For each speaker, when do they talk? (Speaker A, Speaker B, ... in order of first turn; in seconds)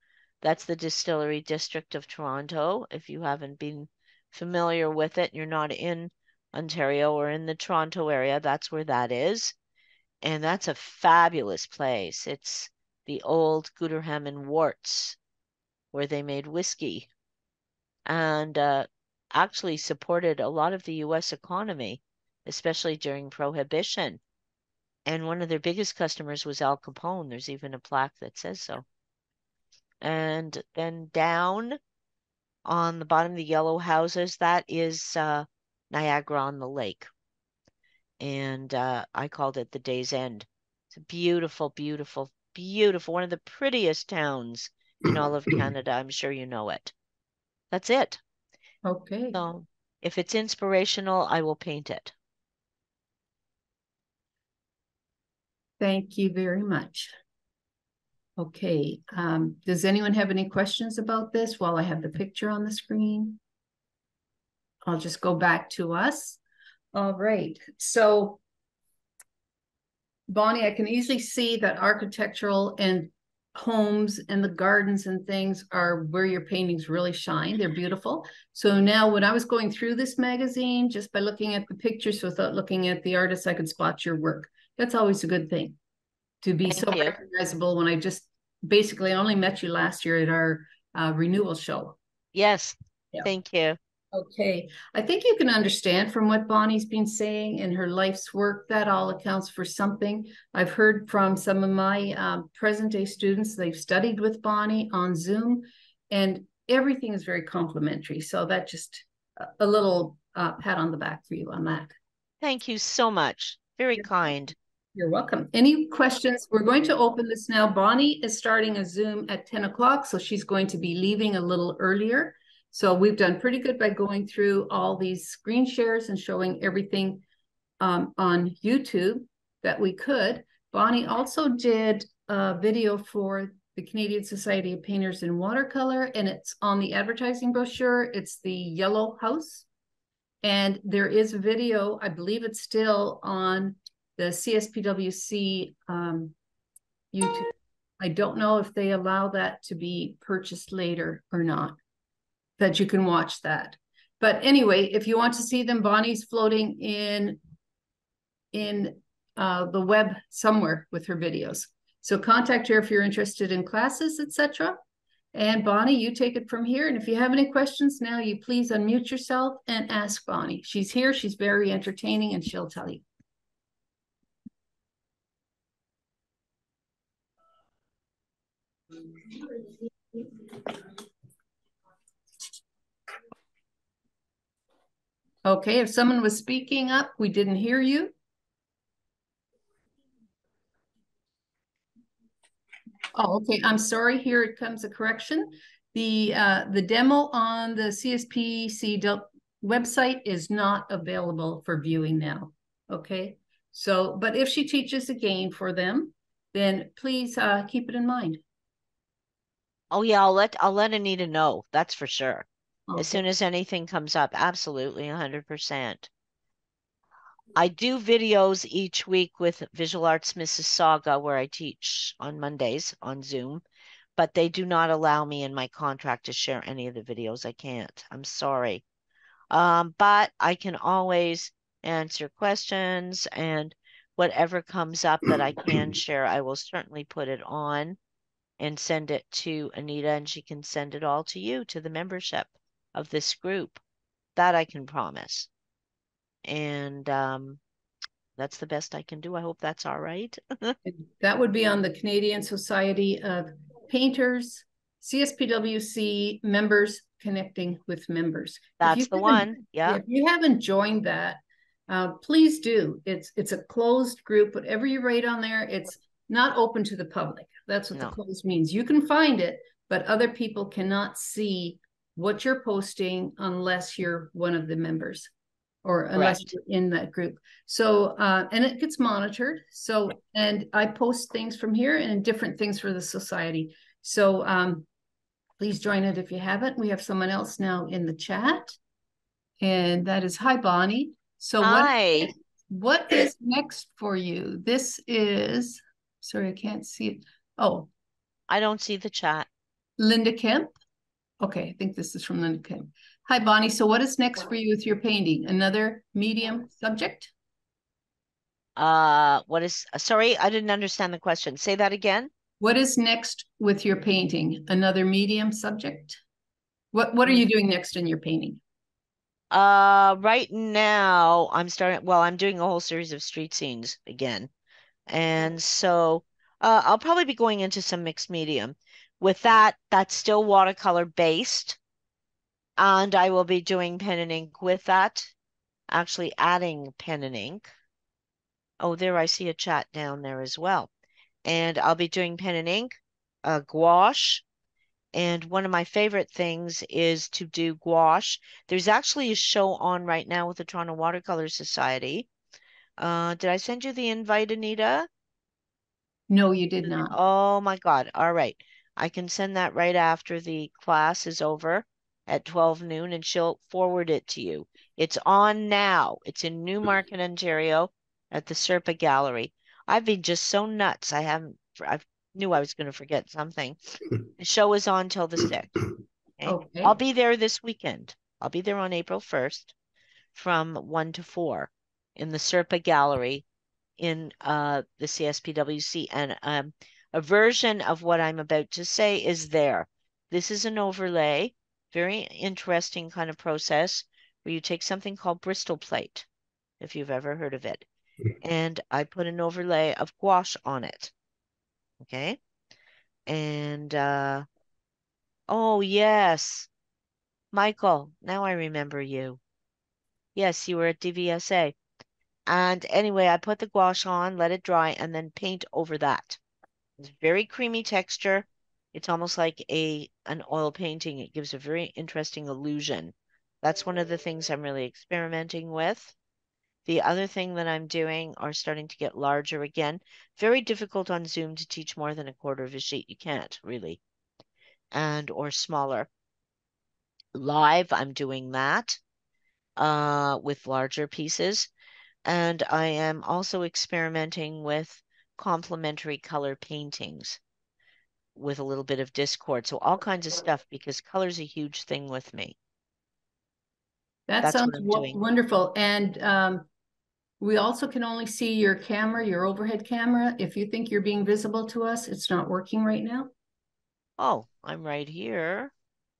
Speaker A: 0.4-9.5, 10.2-15.2, 15.9-17.1, 18.1-24.2, 25.1-28.8, 30.0-31.8, 32.6-37.1, 38.2-46.9, 47.7-48.2, 49.3-52.1, 86.7-87.1, 92.3-93.8, 112.4-114.5, 209.9-216.1, 217.5-223.6, 224.2-228.8, 229.5-238.0, 238.6-243.8, 244.3-245.5, 246.4-247.6, 248.4-250.7, 258.8-260.0, 276.1-276.4, 291.6-292.3, 298.5-299.5, 308.8-312.3, 319.5-324.5, 325.1-331.8, 332.8-335.3, 335.9-337.7, 338.8-340.9, 341.4-344.4, 345.1-352.3, 353.0-355.1, 356.9-373.8, 374.4-375.8, 376.4-379.7, 380.3-383.4, 384.0-396.2, 396.8-397.9, 398.4-401.1, 402.0-402.4, 403.3-404.4, 405.5-406.7, 407.5-409.4, 410.4-411.8, 412.5-416.4, 417.0-426.1, 426.9-434.0, 434.9-436.1, 437.3-439.0, 439.8-441.7, 442.2-447.4, 448.4-452.6, 454.4-455.2, 464.2-465.7
Speaker B: 48.8-49.4, 55.8-57.1, 58.4-63.4, 64.8-66.4, 66.9-68.4, 70.3-85.8, 86.4-92.0, 94.1-111.9, 115.0-127.2, 127.8-139.7, 140.4-146.3, 147.1-151.8, 152.6-157.4, 158.5-164.8, 165.3-173.0, 185.4-188.1, 193.1-208.4, 212.9-213.2, 250.8-275.3, 275.8-284.9, 285.6-288.8, 289.6-297.9, 300.0-300.7, 301.4-307.3, 312.6-316.2, 316.9-318.6, 356.3-357.1, 376.4-376.9, 454.3-456.6, 457.4-463.3